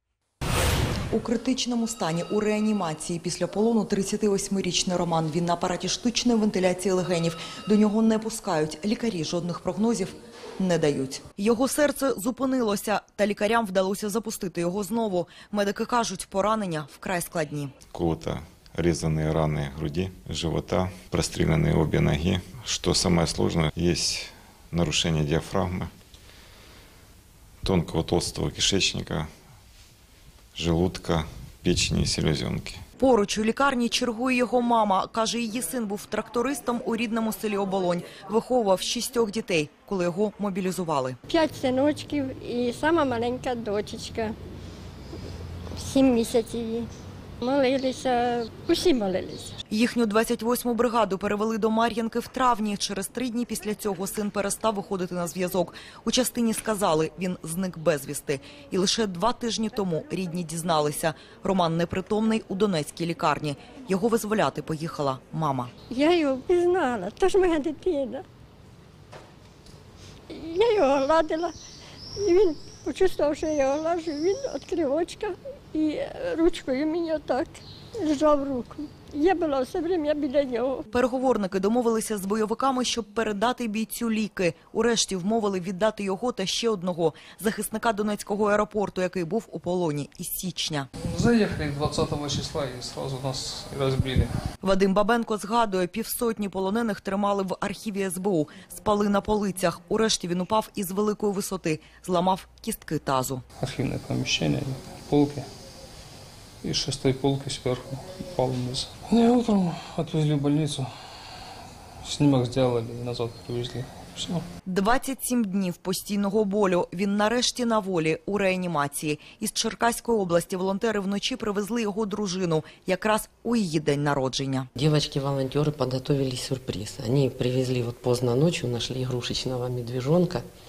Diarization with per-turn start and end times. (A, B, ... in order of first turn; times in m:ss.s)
0:01.1-0:17.7 A
0:17.9-0:25.9 B
0:27.6-0:29.3 B
0:30.6-0:32.8 B
0:33.0-0:41.2 A
0:41.3-0:44.4 C
0:45.7-0:46.9 C
0:47.4-0:49.6 C
0:49.7-1:05.7 A
1:05.9-1:08.2 C
1:10.3-1:11.5 C
1:12.2-1:20.9 C
1:20.9-1:30.9 A
1:31.0-1:34.3 D
1:34.6-1:43.4 A
1:43.6-1:45.5 D
1:46.6-1:50.9 D
1:52.0-1:54.5 D
1:54.7-2:04.7 A
2:04.8-2:10.5 E